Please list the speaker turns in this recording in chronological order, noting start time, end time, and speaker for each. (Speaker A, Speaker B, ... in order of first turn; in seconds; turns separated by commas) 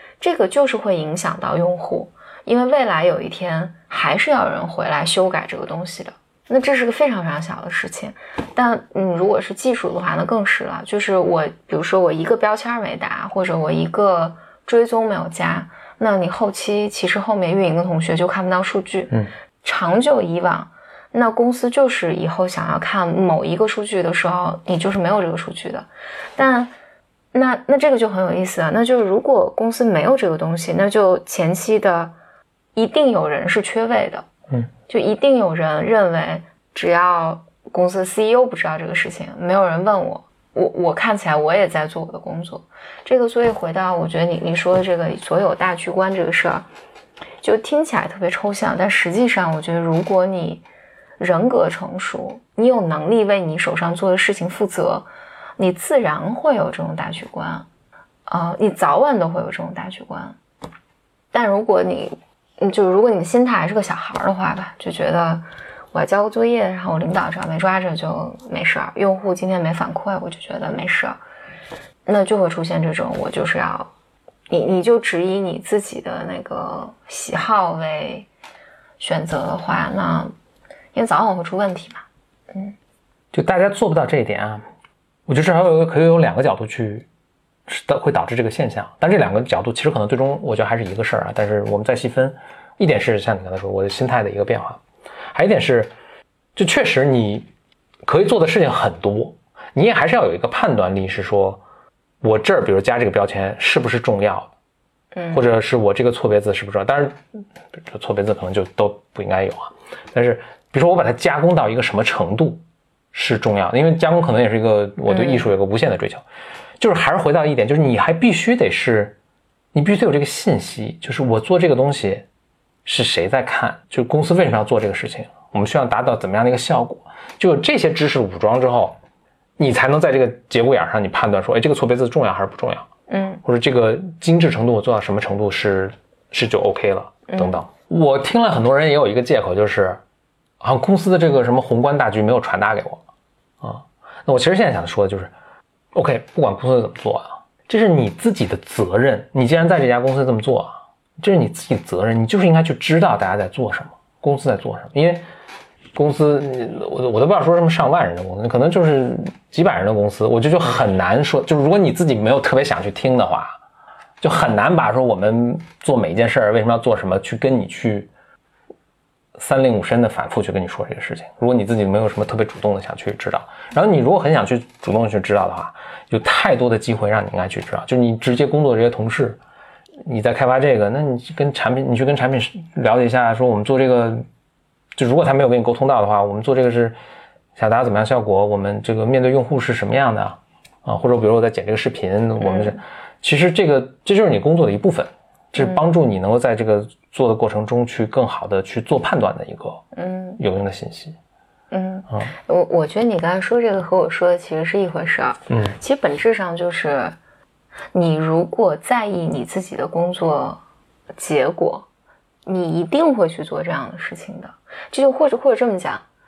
Speaker A: 0.2-26.7, Speaker A: 27.3-32.1, Speaker A: 32.7-34.3, Speaker A: 34.9-46.6, Speaker A: 47.4-50.6, Speaker A: 51.2-57.7, Speaker A: 58.3-60.4, Speaker A: 61.3-71.2, Speaker A: 72.0-73.9, Speaker A: 74.5-78.3, Speaker A: 79.0-80.3, Speaker A: 80.9-82.7, Speaker B: 83.3-84.6, Speaker B: 85.3-87.0, Speaker B: 87.7-94.8, Speaker B: 95.3-95.9, Speaker B: 96.5-97.5, Speaker B: 98.0-101.6, Speaker B: 102.2-104.5, Speaker A: 105.1-105.4, Speaker B: 105.3-107.2, Speaker B: 107.7-116.2, Speaker A: 115.1-115.5, Speaker B: 116.8-119.2, Speaker B: 119.7-122.2, Speaker B: 122.8-129.0, Speaker B: 129.6-132.9, Speaker A: 133.1-133.4, Speaker B: 133.4-140.0, Speaker A: 137.3-137.6, Speaker B: 140.6-143.0, Speaker B: 143.6-145.3, Speaker B: 145.9-155.2, Speaker B: 155.9-163.6, Speaker B: 164.2-168.1, Speaker B: 169.4-179.4, Speaker B: 180.0-184.2, Speaker B: 184.9-186.9, Speaker B: 187.6-199.8, Speaker A: 192.4-192.8, Speaker A: 199.9-200.4, Speaker B: 200.4-201.2, Speaker A: 201.7-207.2, Speaker A: 207.9-210.6, Speaker A: 211.1-211.9, Speaker A: 212.4-216.0